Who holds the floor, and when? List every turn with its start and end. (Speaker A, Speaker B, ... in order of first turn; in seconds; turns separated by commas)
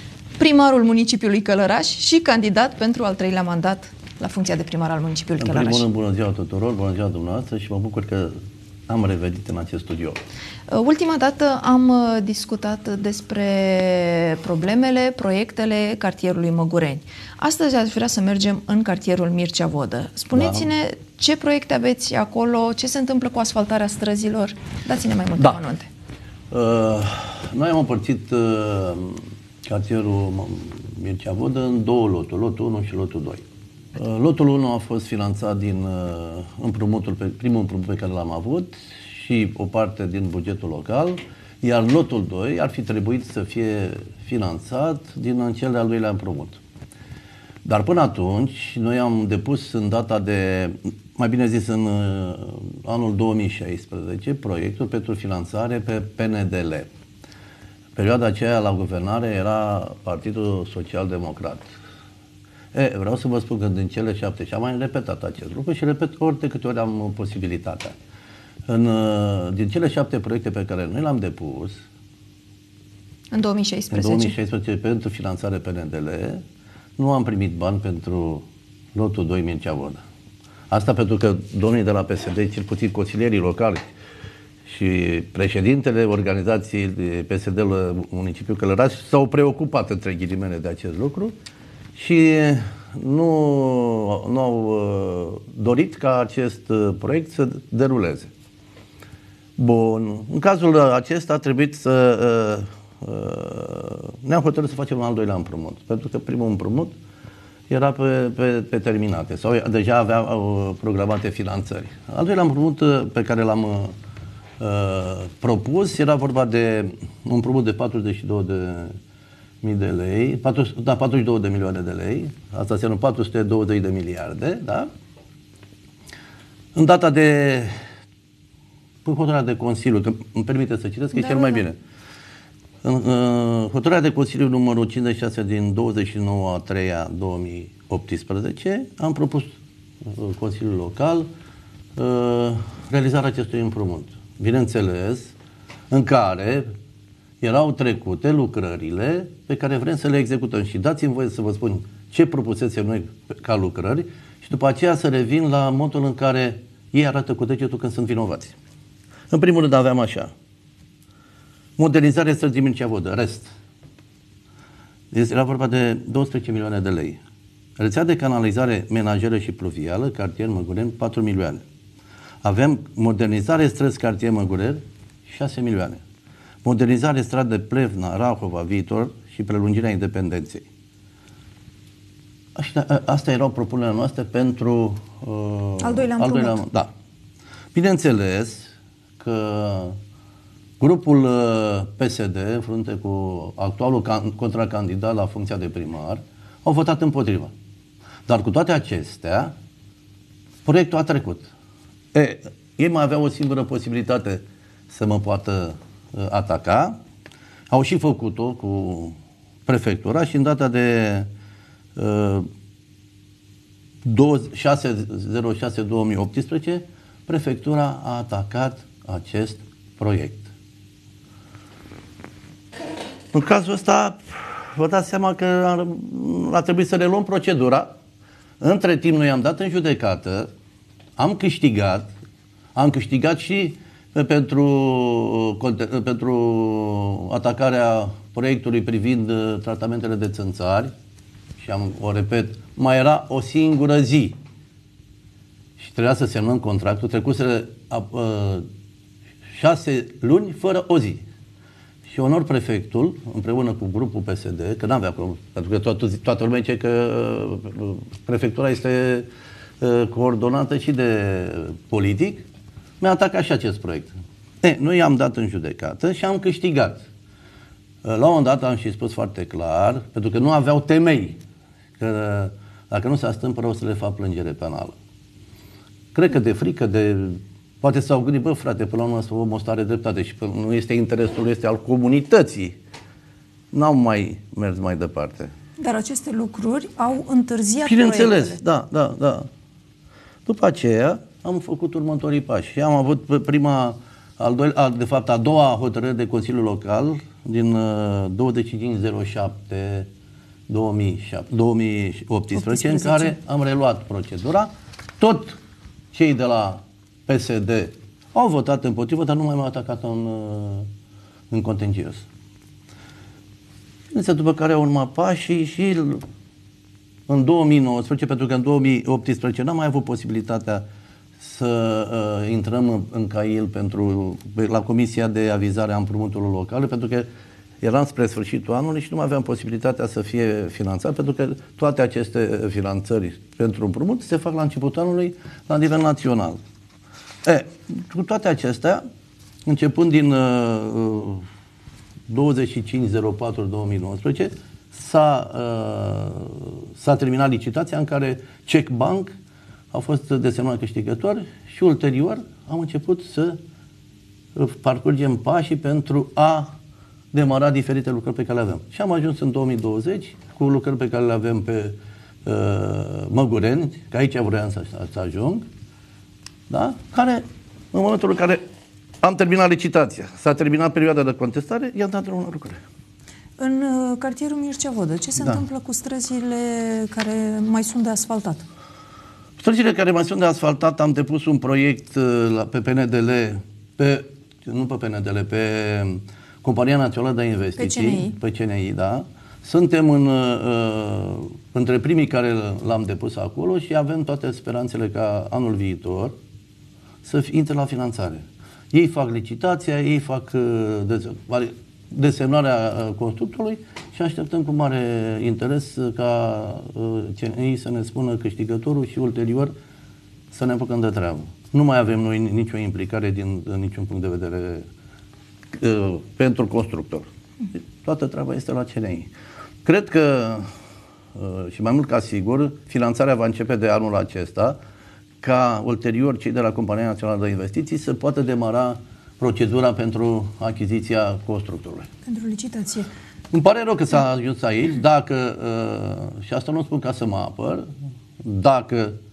Speaker A: 0.4-5.8, Speaker B: 5.4-8.3, Speaker B: 8.9-10.2, Speaker A: 10.7-25.9, Speaker B: 20.3-20.6, Speaker B: 26.5-33.4, Speaker B: 33.9-46.6, Speaker B: 47.6-56.9, Speaker B: 57.9-61.7, Speaker B: 62.7-68.0, Speaker B: 68.7-71.8, Speaker A: 73.3-74.3, Speaker B: 73.9-76.4, Speaker B: 77.0-80.0, Speaker B: 80.7-83.9, Speaker B: 84.6-91.3, Speaker B: 91.9-98.3, Speaker B: 99.6-106.9, Speaker B: 107.7-113.9, Speaker B: 114.6-118.9, Speaker B: 119.6-124.9, Speaker B: 126.7-127.7, Speaker B: 129.0-131.8, Speaker B: 132.8-141.3, Speaker B: 141.9-145.3, Speaker B: 145.9-146.7, Speaker B: 147.4-158.6, Speaker B: 159.3-160.3, Speaker B: 161.8-163.5, Speaker B: 165.1-167.2, Speaker B: 167.8-171.6, Speaker B: 172.4-176.0, Speaker B: 176.6-180.7, Speaker B: 182.6-186.9, Speaker A: 185.8-186.6, Speaker B: 187.7-189.9, Speaker B: 190.8-197.5, Speaker B: 198.3-199.5, Speaker B: 200.6-201.5, Speaker B: 202.1-207.0, Speaker B: 207.7-211.3, Speaker B: 211.9-212.4, Speaker B: 214.0-220.5, Speaker B: 223.3-227.9, Speaker B: 228.6-230.5, Speaker B: 231.2-232.1, Speaker B: 232.7-240.9, Speaker B: 241.6-244.3, Speaker B: 245.8-248.6, Speaker B: 249.5-251.2, Speaker B: 252.1-259.3, Speaker B: 259.8-262.4, Speaker B: 263.0-267.0, Speaker B: 268.0-271.4, Speaker B: 272.0-275.0, Speaker B: 276.1-282.8, Speaker B: 283.7-285.5, Speaker A: 285.8-288.6, Speaker B: 287.8-289.5, Speaker B: 290.4-300.1, Speaker B: 300.7-305.6, Speaker A: 302.5-303.3, Speaker B: 306.1-310.9, Speaker B: 311.5-312.2, Speaker B: 314.1-316.2, Speaker B: 317.3-320.8, Speaker B: 321.4-327.3, Speaker B: 327.8-336.6, Speaker B: 337.4-339.0, Speaker B: 339.6-341.4, Speaker B: 342.3-349.3, Speaker B: 349.9-353.6, Speaker B: 354.5-356.7, Speaker B: 357.3-365.6, Speaker B: 366.7-368.6, Speaker B: 369.2-372.8, Speaker A: 373.6-378.6, Speaker B: 379.6-396.3, Speaker A: 387.8-388.3, Speaker B: 397.2-409.7, Speaker B: 410.5-414.9, Speaker B: 415.7-419.3, Speaker B: 419.8-420.7, Speaker B: 421.3-424.8, Speaker B: 425.4-432.1, Speaker A: 432.2-433.1, Speaker B: 433.5-437.9, Speaker B: 438.4-439.1